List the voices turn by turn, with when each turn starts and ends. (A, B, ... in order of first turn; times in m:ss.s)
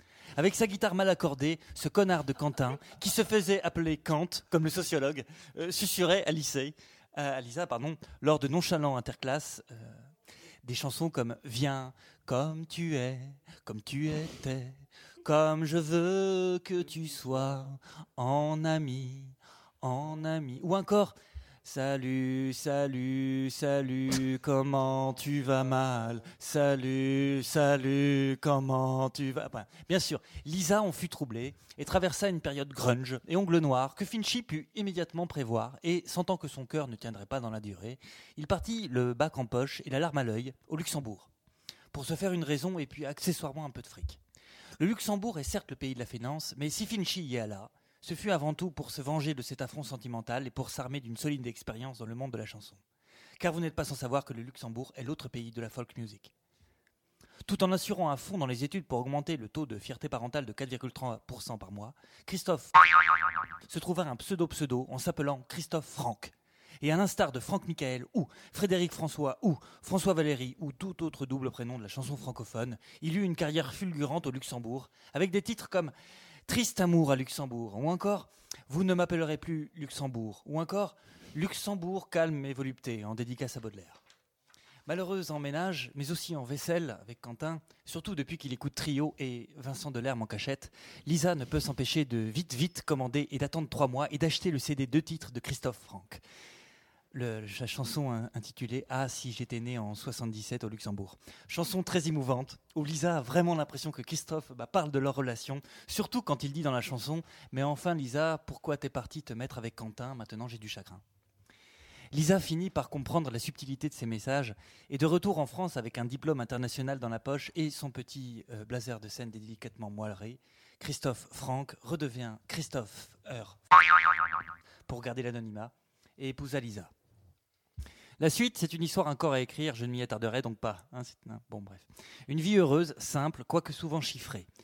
0:00.3-0:10.1 A
0:10.6-0:41.3 A
0:41.9-0:44.2 A
0:44.8-0:52.8 A
0:53.4-0:56.3 A
0:57.4-1:02.8 A
1:03.7-1:15.9 A
1:16.5-1:24.0 A
1:24.9-1:36.2 A
1:37.1-1:51.0 A
1:52.1-2:03.6 A
2:04.9-2:06.9 A
2:08.2-2:14.5 A